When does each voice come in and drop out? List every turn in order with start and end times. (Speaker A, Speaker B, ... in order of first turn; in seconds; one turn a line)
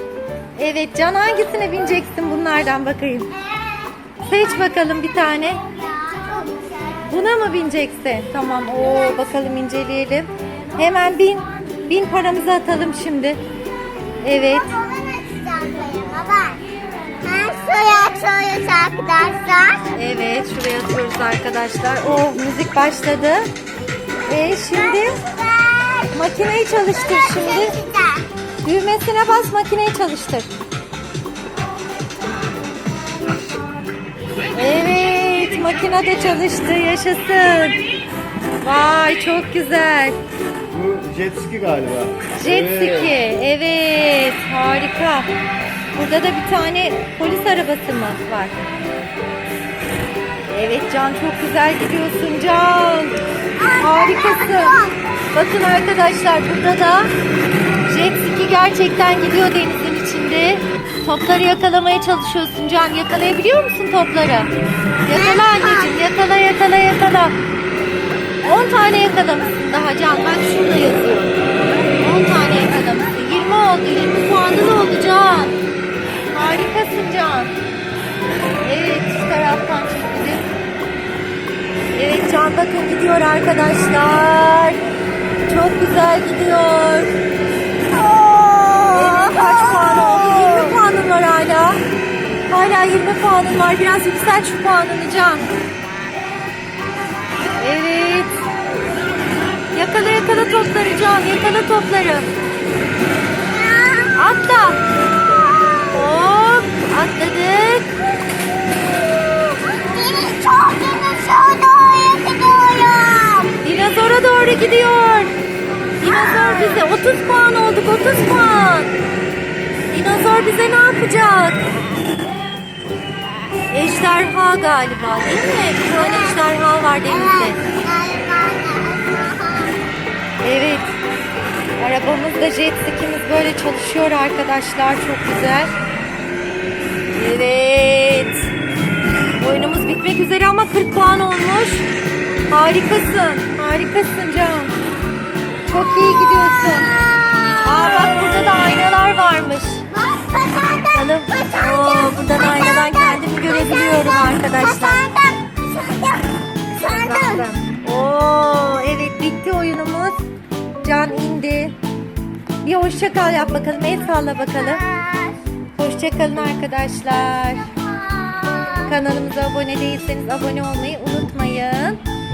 Speaker A: 0.6-3.3
Speaker A: 4.2-5.6
Speaker B: 5.9-7.0
Speaker A: 7.0-13.4
Speaker A: 14.2-14.7
Speaker B: 14.4-16.6
Speaker B: 17.2-19.9
Speaker A: 19.9-23.5
Speaker A: 24.3-25.2
Speaker B: 24.7-26.1
Speaker A: 26.1-27.8
Speaker B: 27.0-28.3
Speaker A: 28.6-30.5
Speaker A: 34.5-37.8
Speaker A: 38.6-40.2
Speaker C: 40.7-43.0
Speaker A: 42.3-45.3
Speaker A: 45.9-48.6
Speaker A: 50.5-53.2
Speaker B: 53.6-55.0
Speaker A: 53.8-54.8
Speaker A: 55.3-57.1
Speaker A: 57.8-64.5
Speaker A: 65.0-67.3
Speaker B: 65.1-65.9
Speaker A: 68.4-71.3
Speaker A: 72.0-75.6
Speaker A: 76.3-77.5
Speaker A: 78.6-80.5
Speaker A: 81.9-84.8
Speaker A: 85.5-87.1
Speaker B: 87.9-90.4
Speaker A: 88.8-91.8
Speaker A: 92.5-95.4
Speaker A: 97.6-98.3
Speaker A: 99.7-102.3
Speaker B: 103.5-104.1
Speaker A: 104.1-104.8
Speaker B: 105.3-106.0
Speaker A: 105.9-107.9
Speaker B: 109.4-113.5
Speaker A: 113.6-115.3
Speaker A: 116.0-118.9
Speaker B: 116.1-116.5
Speaker A: 119.9-121.7
Speaker A: 123.7-127.6
Speaker B: 125.9-126.4
Speaker B: 127.0-129.8
Speaker A: 130.4-130.9
Speaker A: 131.8-135.7
Speaker A: 137.1-138.5
Speaker A: 139.4-141.9
Speaker A: 142.5-144.7
Speaker A: 145.7-146.9
Speaker B: 146.9-148.3
Speaker A: 147.6-149.8
Speaker B: 149.9-157.5
Speaker A: 150.9-155.0
Speaker A: 156.8-160.3
Speaker A: 160.8-161.7
Speaker A: 162.6-164.8
Speaker B: 164.8-165.4
Speaker A: 165.8-167.7
Speaker B: 167.8-168.9
Speaker A: 168.8-172.0